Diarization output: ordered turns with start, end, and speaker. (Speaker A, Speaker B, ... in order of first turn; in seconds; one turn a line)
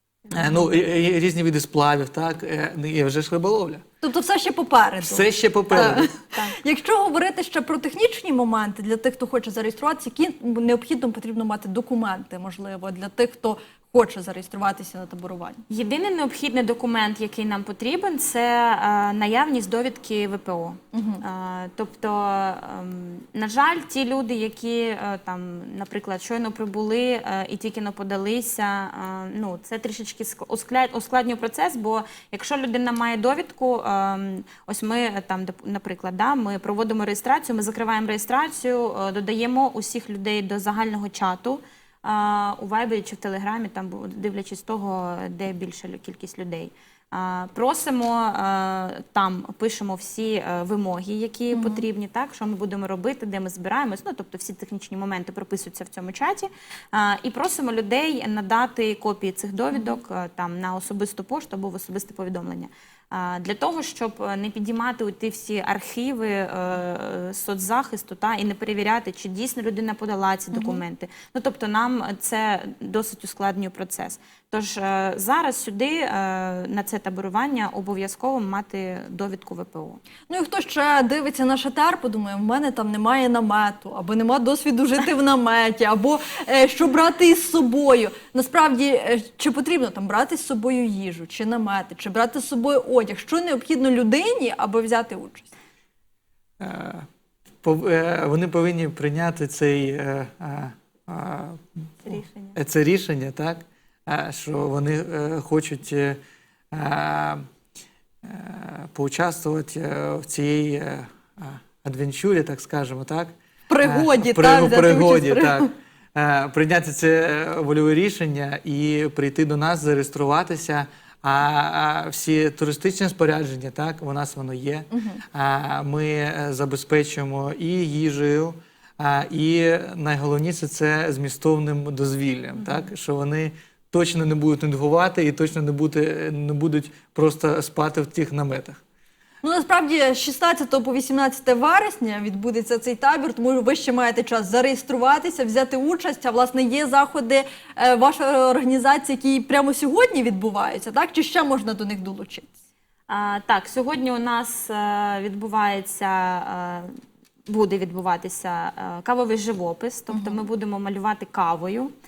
Speaker A: 0.3-3.8
Speaker B: 4.0-15.6
Speaker A: 5.0-6.1
Speaker C: 15.7-80.0
Speaker B: 20.9-21.2
Speaker B: 51.5-51.8
Speaker B: 70.5-70.8
Speaker B: 80.3-95.5
Speaker A: 96.6-97.1
Speaker A: 97.6-106.2
Speaker C: 102.0-102.6
Speaker A: 106.7-107.4
Speaker A: 108.2-138.8
Speaker B: 113.7-115.7
Speaker B: 124.9-125.2
Speaker B: 139.4-152.5
Speaker C: 153.1-161.9
Speaker B: 160.1-160.4